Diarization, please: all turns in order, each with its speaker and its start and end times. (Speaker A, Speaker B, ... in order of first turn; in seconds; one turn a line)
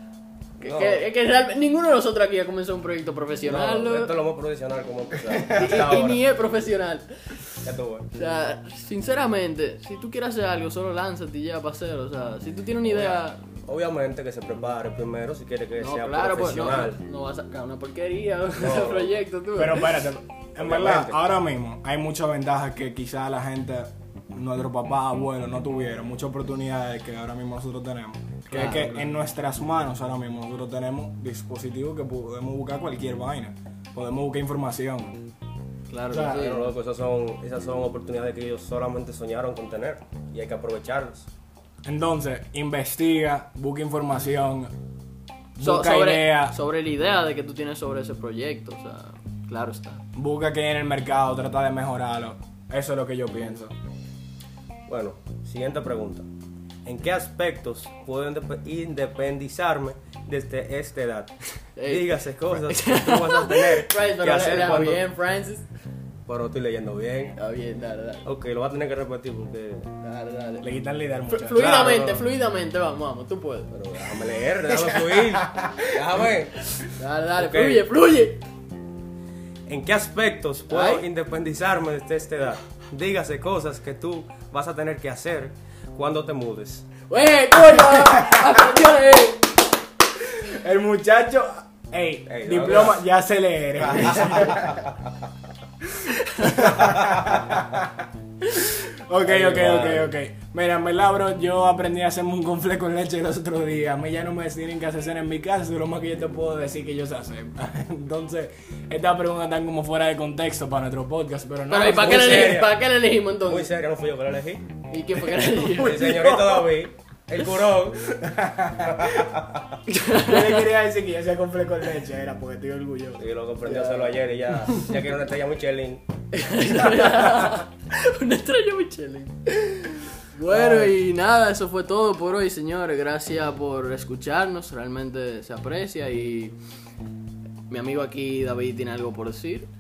Speaker A: 0.6-4.2
Speaker B: 0.6-1.1
Speaker B: 3.5-6.2
Speaker A: 5.5-7.4
Speaker B: 7.6-8.1
Speaker A: 8.1-13.5
Speaker B: 12.8-17.0
Speaker A: 15.8-20.0
Speaker B: 18.6-19.1
Speaker C: 19.6-35.2
Speaker B: 20.6-21.2
Speaker A: 28.5-29.1
Speaker A: 35.9-36.7
Speaker C: 36.1-36.4
Speaker B: 36.3-41.3
Speaker C: 41.9-44.7
Speaker C: 45.6-46.5
Speaker A: 45.6-50.0
Speaker C: 50.1-53.7
Speaker B: 54.9-56.3
Speaker B: 56.9-61.4
Speaker A: 61.8-65.7
Speaker B: 61.9-65.0
Speaker B: 66.3-67.3
Speaker A: 67.4-68.2
Speaker B: 68.2-69.9
Speaker A: 70.0-70.7
Speaker C: 70.6-71.9
Speaker A: 71.3-73.7
Speaker B: 71.5-72.3
Speaker B: 73.7-76.6
Speaker C: 74.7-76.1
Speaker A: 76.8-78.4
Speaker B: 77.4-77.9
Speaker B: 79.7-86.9
Speaker A: 80.7-81.0
Speaker A: 87.1-89.5
Speaker C: 87.8-88.5
Speaker C: 90.4-94.7
Speaker B: 92.3-93.0
Speaker B: 94.0-94.8
Speaker A: 96.2-96.6
Speaker C: 96.4-98.0
Speaker B: 96.8-97.4
Speaker C: 98.7-112.6
Speaker B: 99.2-100.1
Speaker A: 111.7-113.8
Speaker B: 111.8-112.8
Speaker B: 113.4-114.7
Speaker A: 114.9-116.1
Speaker C: 115.5-116.7
Speaker B: 115.7-118.1
Speaker C: 118.1-119.2
Speaker B: 118.8-119.6
Speaker A: 119.9-120.7
Speaker C: 120.1-124.1
Speaker B: 123.2-126.0
Speaker A: 126.3-136.6
Speaker C: 130.5-131.0
Speaker A: 137.7-139.7